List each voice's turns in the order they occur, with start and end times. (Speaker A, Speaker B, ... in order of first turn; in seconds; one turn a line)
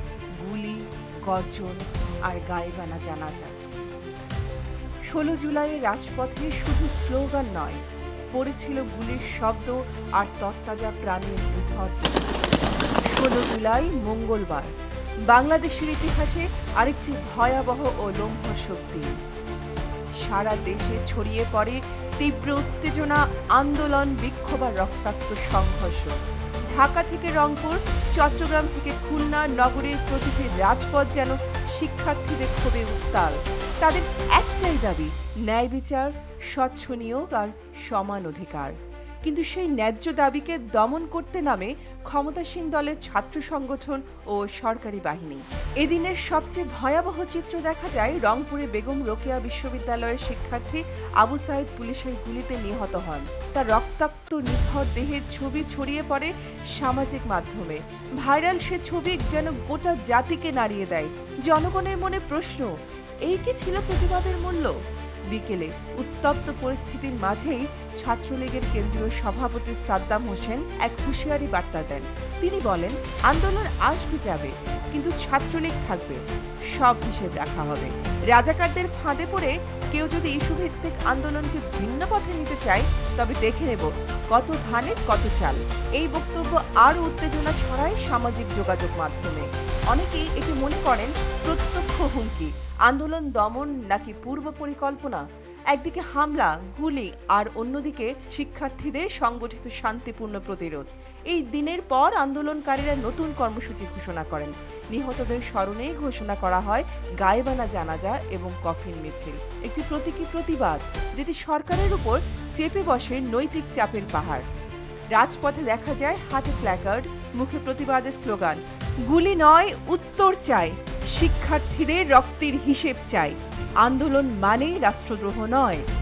Speaker A: 0.4-3.6
Speaker A: 5.1-12.3
Speaker A: 13.1-14.7
Speaker A: 15.3-19.2
Speaker A: 20.2-26.2
Speaker A: 26.7-64.8
Speaker A: 65.3-76.2
Speaker A: 76.7-114.4
Speaker A: 115.1-125.8